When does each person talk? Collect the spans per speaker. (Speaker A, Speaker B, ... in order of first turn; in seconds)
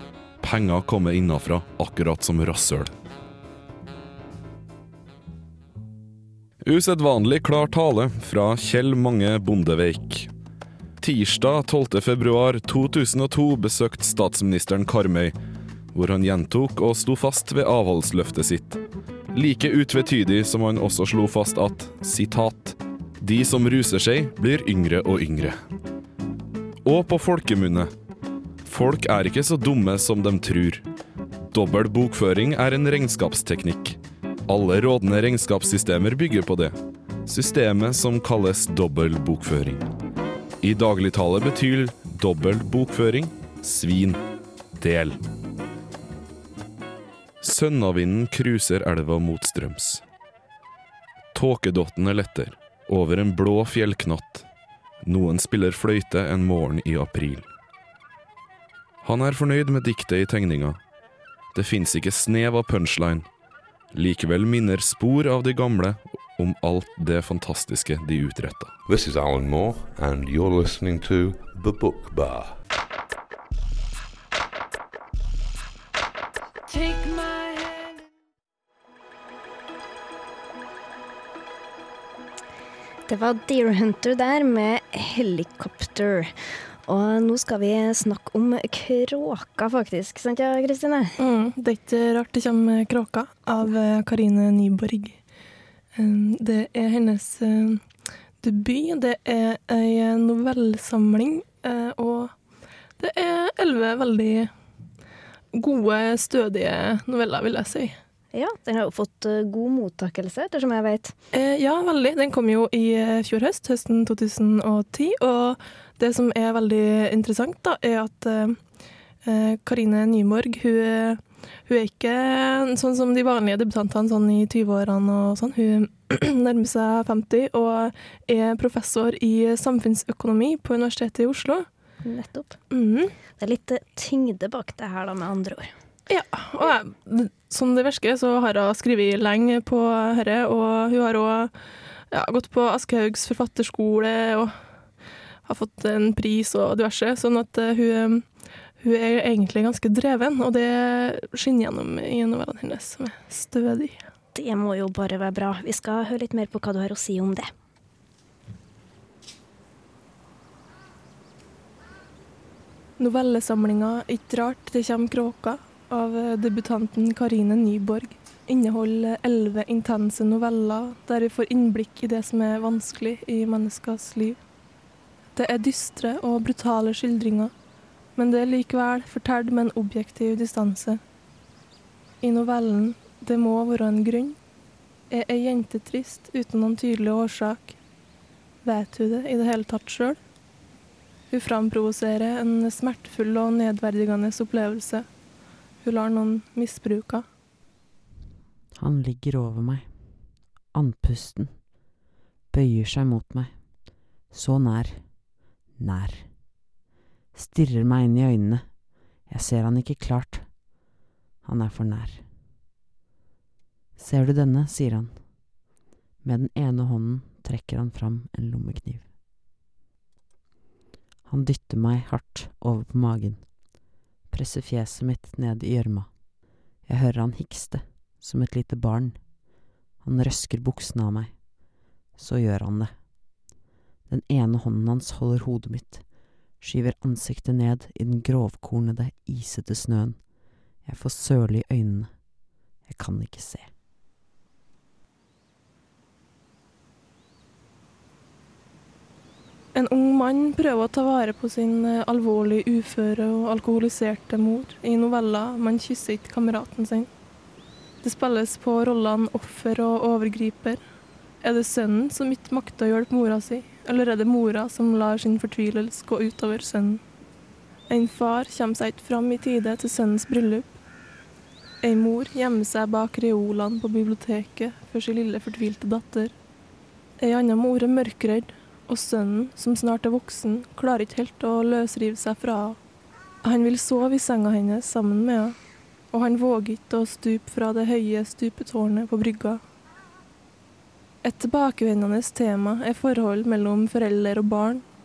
Speaker A: 0.4-2.9, 6.6-10.3, 11.0-15.3, 15.9-18.8, 19.3-25.6, 26.8-27.9, 28.6-30.8, 31.5-36.7, 37.2-39.9, 40.6-44.2, 44.8-45.2, 47.4-50.0, 51.3-54.5, 55.0-57.5, 59.0-60.8, 61.5-63.3, 63.9-68.8
Speaker B: 68.8-72.6
Speaker C: 83.1-86.3, 86.9-91.2, 108.3-111.1, 132.0-132.6, 133.4-135.7, 154.3-157.5
Speaker D: 91.2-95.2, 95.9-97.8, 98.4-102.3, 103.0-104.5, 105.5-108.0, 111.3-118.6, 119.2-131.7, 132.7-133.1, 136.1-141.5, 142.1-144.5, 145.4-154.0, 163.0-174.4, 175.3-177.5, 178.1-181.0, 182.2-184.4, 185.1-187.7, 188.6-190.2, 191.3-195.1, 195.8-197.2, 249.7-257.1, 258.0-260.8, 261.4-267.0, 267.9-270.7, 271.8-276.3, 277.2-282.8, 283.4-285.6, 286.1-289.6, 291.2-294.8
Speaker E: 198.8-201.8, 202.5-206.4, 207.3-210.8, 211.4-212.3, 214.0-215.4, 216.2-219.1, 221.2-233.3, 234.1-243.7